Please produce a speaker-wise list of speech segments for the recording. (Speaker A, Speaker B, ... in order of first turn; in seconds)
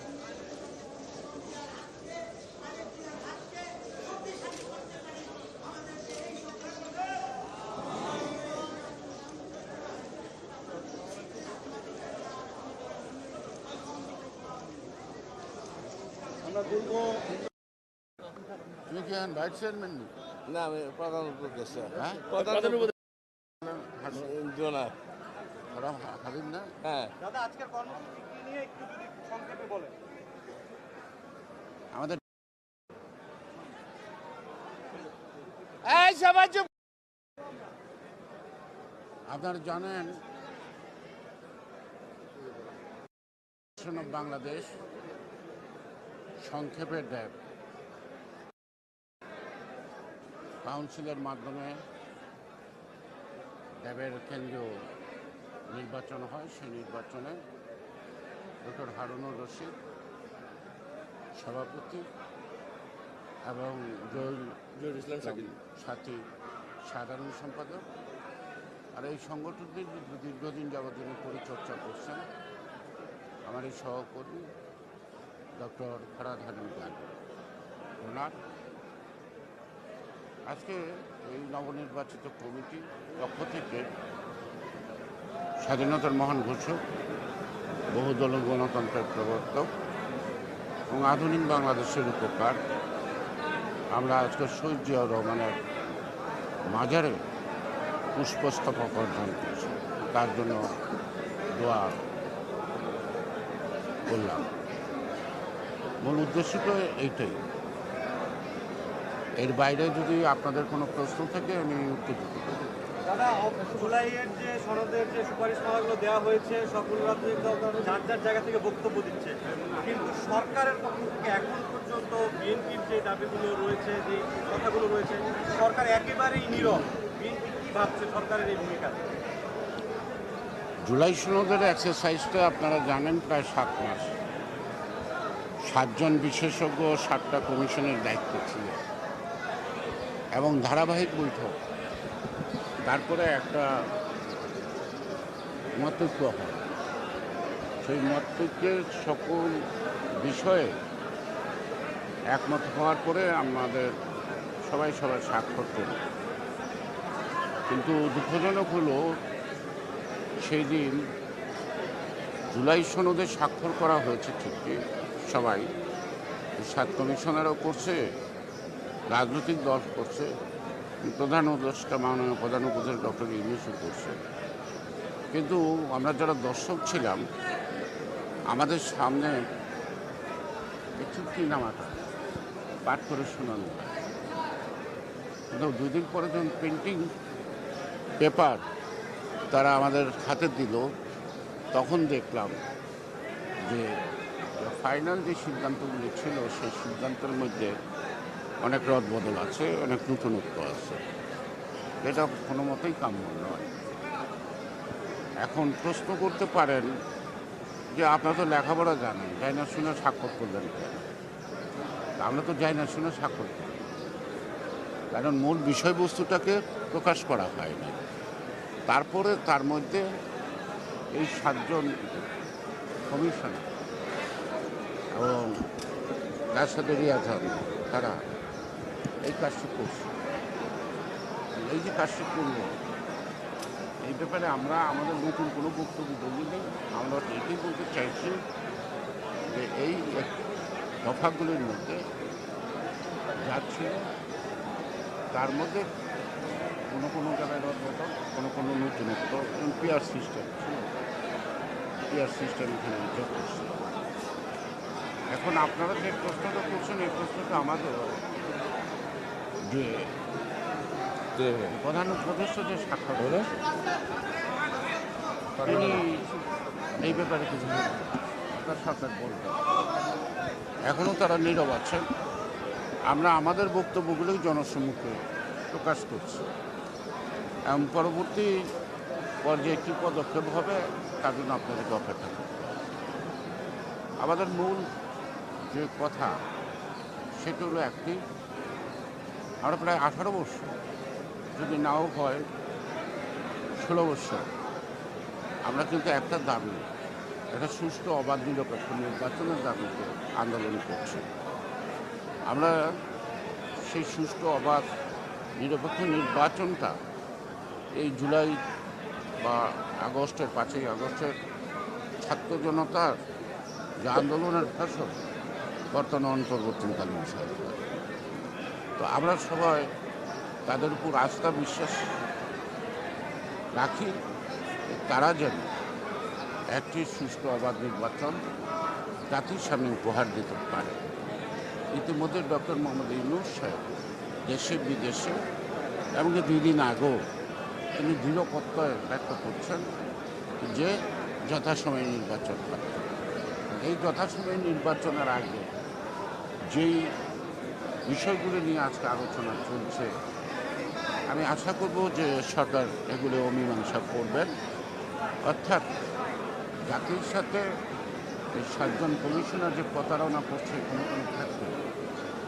Speaker A: 18.9-20.1, 21.9-22.3, 23.6-24.3, 25.7-26.8, 31.9-32.2, 39.3-40.2, 43.7-44.8, 46.4-47.4, 50.6-51.9, 53.8-54.9, 55.7-57.5, 58.6-59.8, 61.3-62.1, 63.4-66.3, 66.8-67.9, 68.9-72.3, 73.5-74.5, 75.6-77.2, 78.0-78.4, 80.5-83.9, 85.6-86.8, 87.9-89.7, 90.9-92.7, 93.9-95.6, 96.7-97.2, 98.1-100.8, 101.5-102.1, 104.1-104.5, 106.0-107.4, 109.4-112.7, 130.8-134.2, 135.6-138.8, 140.3-141.6, 142.9-143.9, 145.8-146.7, 147.8-149.6, 150.2-150.8, 152.3-154.0, 154.6-156.0, 157.7-159.2, 160.4-161.1, 162.5-165.7, 166.6-168.1, 169.1-170.4, 171.0-174.2, 175.3-177.3, 178.5-179.5, 181.0-182.0, 182.9-184.0, 185.5-187.1, 188.2-188.7, 189.5-190.9, 191.7-192.6, 193.6-194.0, 194.6-197.8, 198.6-201.0, 202.0-203.7, 205.4-206.9, 207.9-211.1, 212.2-213.8, 215.1-218.0, 218.9-220.1, 221.1-222.0, 223.1-223.7, 225.1-225.7, 226.5-228.2, 229.2-230.1, 231.6-232.8, 234.0-238.4, 239.5-240.4, 241.0-242.0, 243.3-244.1, 245.3-245.9, 246.9-250.9, 252.1-253.9, 255.3-258.2, 259.6-260.2, 261.6-263.7, 265.6-266.3, 267.0-269.6, 270.9-272.1, 273.1-276.5, 277.7-278.7, 279.4-282.8, 284.2-284.9, 285.6-286.4, 287.4-288.3, 289.6-290.8, 291.5-292.5, 293.8-294.5, 295.6-296.9, 297.5-301.3, 302.5-303.0, 303.8-304.9, 305.6-307.0, 307.9-308.6, 309.4-311.4, 312.2-313.2, 314.0-315.2, 315.9-317.9, 319.0-319.9, 320.7-322.1, 323.8-324.2, 324.9-325.7, 326.7-328.4, 329.3-331.0, 331.9-333.8, 334.4-335.4, 336.1-337.3, 337.9-339.9, 340.6-345.7, 346.7-347.2, 348.1-350.2, 351.3-354.5, 355.4-355.9, 356.9-357.7, 358.6-361.8
Speaker B: 20.5-22.9, 24.1-25.0, 26.8-27.1, 35.8-36.7, 65.0-65.3, 261.4-261.7
Speaker C: 27.2-30.0, 113.0-129.1